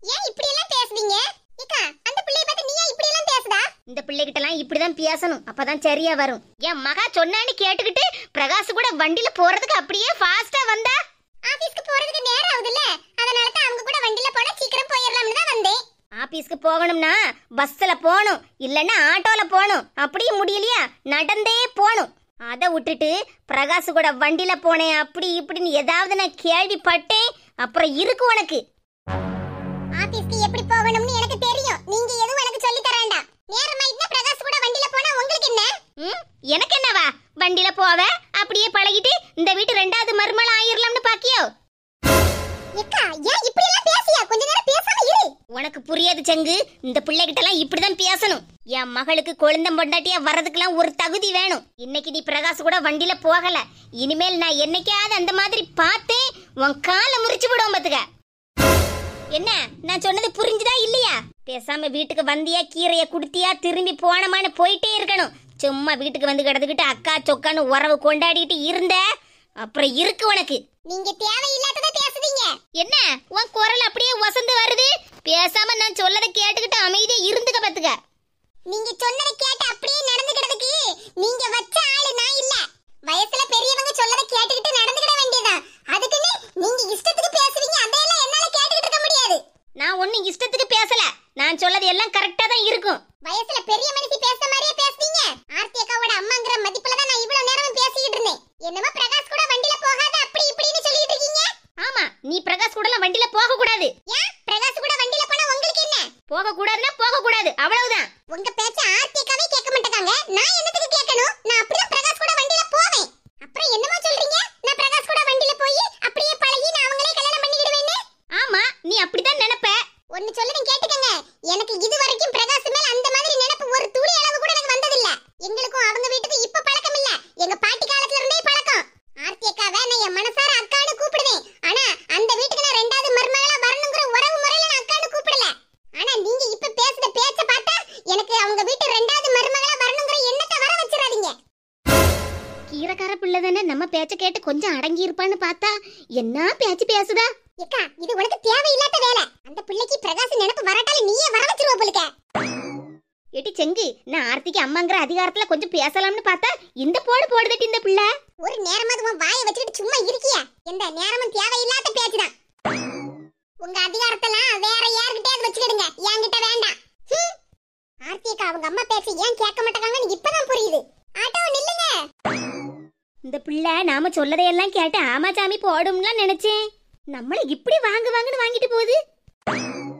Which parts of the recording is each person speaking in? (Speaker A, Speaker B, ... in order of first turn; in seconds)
Speaker A: 0.1-3.7, 11.5-15.8, 30.0-35.7, 42.8-45.3, 70.9-72.6, 78.7-89.4, 93.2-101.5, 104.1-106.1, 108.3-118.0, 120.1-141.3, 147.6-152.1, 158.4-162.3, 163.6-167.3, 168.1-172.0
Speaker B: 3.9-11.0, 16.2-28.6, 36.0-41.5, 45.5-58.0, 59.3-69.0, 69.6-70.6, 72.8-78.0, 89.8-93.0, 101.8-103.9, 106.3-108.1, 118.4-119.8, 142.7-147.3, 153.4-158.1, 173.3-176.6, 177.1-179.0